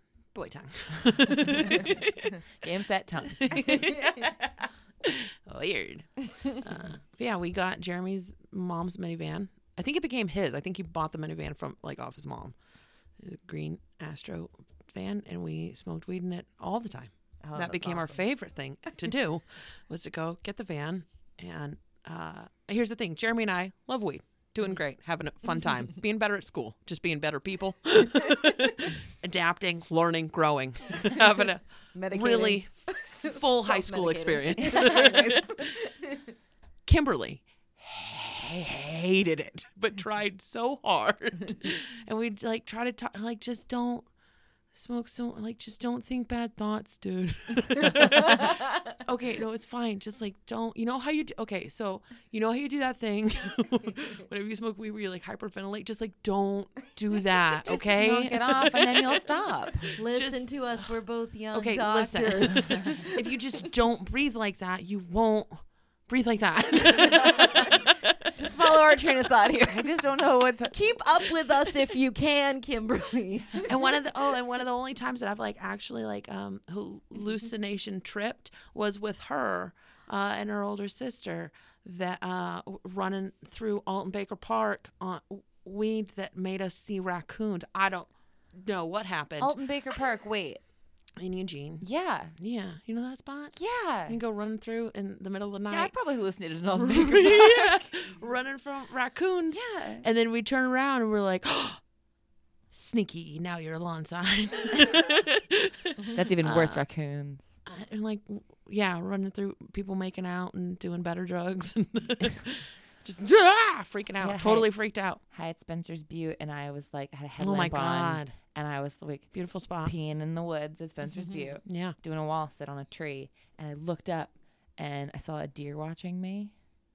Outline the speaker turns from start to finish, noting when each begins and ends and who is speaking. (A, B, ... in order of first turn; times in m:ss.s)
0:00.3-0:02.4 A
0:02.6-0:03.8 B
0:03.4-0:12.6 A
0:13.2-0:35.7 A
0:17.4-0:18.2 C
0:31.9-0:36.2 C
0:36.9-0:44.1 A
0:44.7-0:59.1 A
0:57.7-0:59.9 B
0:59.8-1:00.6 A
1:00.0-1:03.3 C
1:01.5-1:08.3 A
1:08.4-1:10.0 C
1:09.7-1:10.9 B
1:10.7-1:13.9 C
1:13.7-1:29.6 A
1:29.4-1:30.6 B
1:31.2-1:35.9 A
1:31.8-1:32.3 B
1:33.6-1:34.2 B
1:35.7-1:37.9 B
1:36.7-1:41.8 A
1:39.5-1:40.1 B
1:42.7-1:46.8 A
1:46.1-1:47.5 B
1:47.7-1:55.2 A
1:54.2-2:06.6 B
1:57.4-1:58.4 A
1:59.3-1:59.9 A
2:01.6-2:02.0 A